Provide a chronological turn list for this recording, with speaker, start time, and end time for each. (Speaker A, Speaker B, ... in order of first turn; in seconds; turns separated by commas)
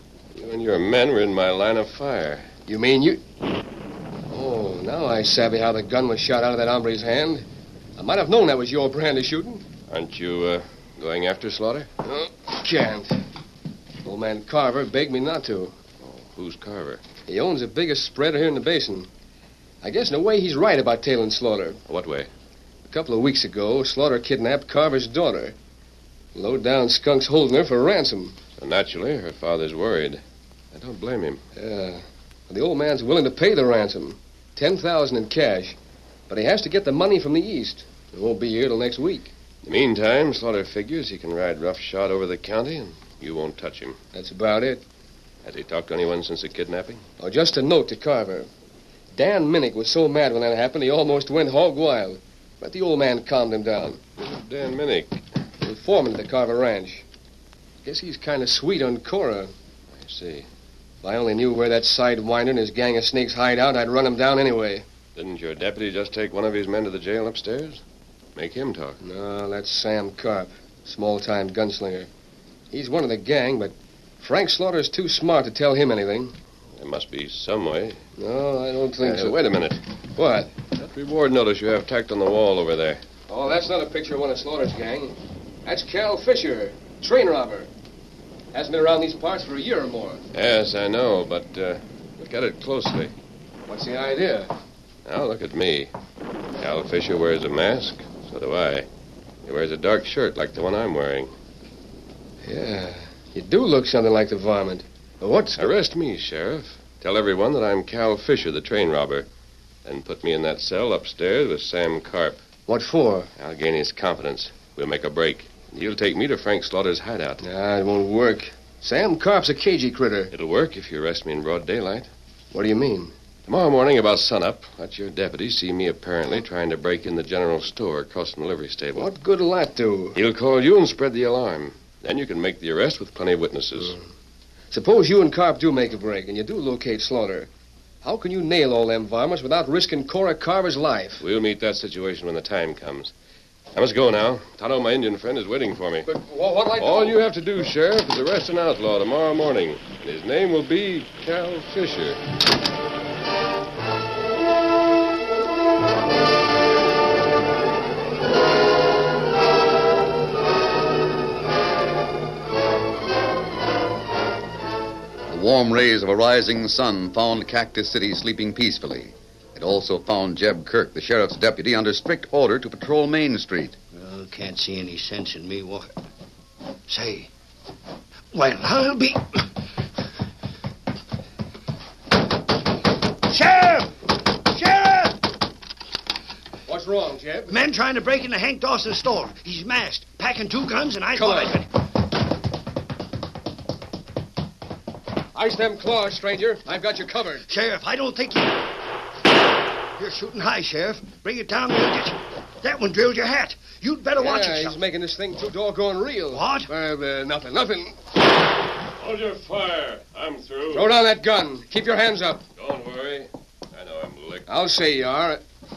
Speaker A: 0.3-2.5, Speaker B: 2.7-3.2, Speaker B: 4.3-7.5, Speaker B: 8.0-9.6, Speaker A: 9.9-11.9, Speaker B: 12.0-13.2, Speaker B: 14.0-15.7, Speaker A: 16.0-17.0, Speaker B: 17.3-19.1, Speaker B: 19.8-21.8, Speaker A: 21.9-22.3, Speaker B: 22.9-25.6, Speaker B: 26.3-28.4, Speaker A: 28.6-30.2, Speaker A: 30.7-31.4, Speaker B: 31.6-35.8, Speaker B: 36.3-39.3, Speaker A: 39.6-44.0, Speaker B: 44.1-44.8, Speaker A: 45.4-47.0, Speaker B: 47.2-48.5, Speaker B: 49.1-54.0, Speaker A: 54.2-55.2, Speaker B: 55.6-57.0, Speaker B: 57.8-59.5, Speaker A: 60.0-60.5, Speaker B: 61.0-64.8, Speaker A: 65.2-67.8, Speaker A: 68.3-69.0, Speaker B: 69.0-72.1, Speaker B: 72.7-76.3, Speaker A: 76.8-78.0, Speaker B: 78.2-79.6, Speaker A: 79.0-79.8, Speaker B: 80.2-80.5, Speaker A: 80.7-83.0, Speaker B: 83.3-87.7, Speaker B: 88.5-90.2, Speaker A: 90.3-93.1, Speaker B: 93.7-94.5, Speaker A: 95.0-95.9, Speaker A: 96.6-98.9, Speaker A: 99.4-101.3, Speaker B: 102.4-105.6, Speaker A: 105.5-109.3, Speaker A: 109.8-112.4, Speaker B: 112.7-113.3, Speaker A: 113.3-117.4, Speaker B: 117.4-120.3, Speaker A: 120.3-122.1, Speaker B: 122.5-123.1, Speaker A: 123.5-129.1, Speaker B: 128.9-130.2, Speaker A: 130.1-134.0, Speaker B: 134.7-137.5, Speaker B: 138.0-141.2, Speaker A: 141.2-143.1, Speaker A: 143.7-146.1, Speaker B: 146.0-147.2, Speaker A: 146.8-152.2, Speaker C: 165.3-173.8, Speaker D: 173.9-175.9, Speaker D: 176.9-177.3, Speaker D: 178.3-179.4, Speaker D: 183.3-183.9, Speaker D: 184.5-185.2, Speaker B: 186.7-187.6, Speaker D: 187.5-191.7, Speaker B: 191.1-191.6, Speaker B: 195.3-197.4, Speaker D: 197.5-198.6, Speaker D: 200.0-204.8, Speaker B: 204.2-208.0, Speaker D: 206.3-206.7, Speaker A: 209.0-210.9, Speaker B: 210.7-212.4, Speaker A: 212.6-214.5, Speaker B: 214.5-215.4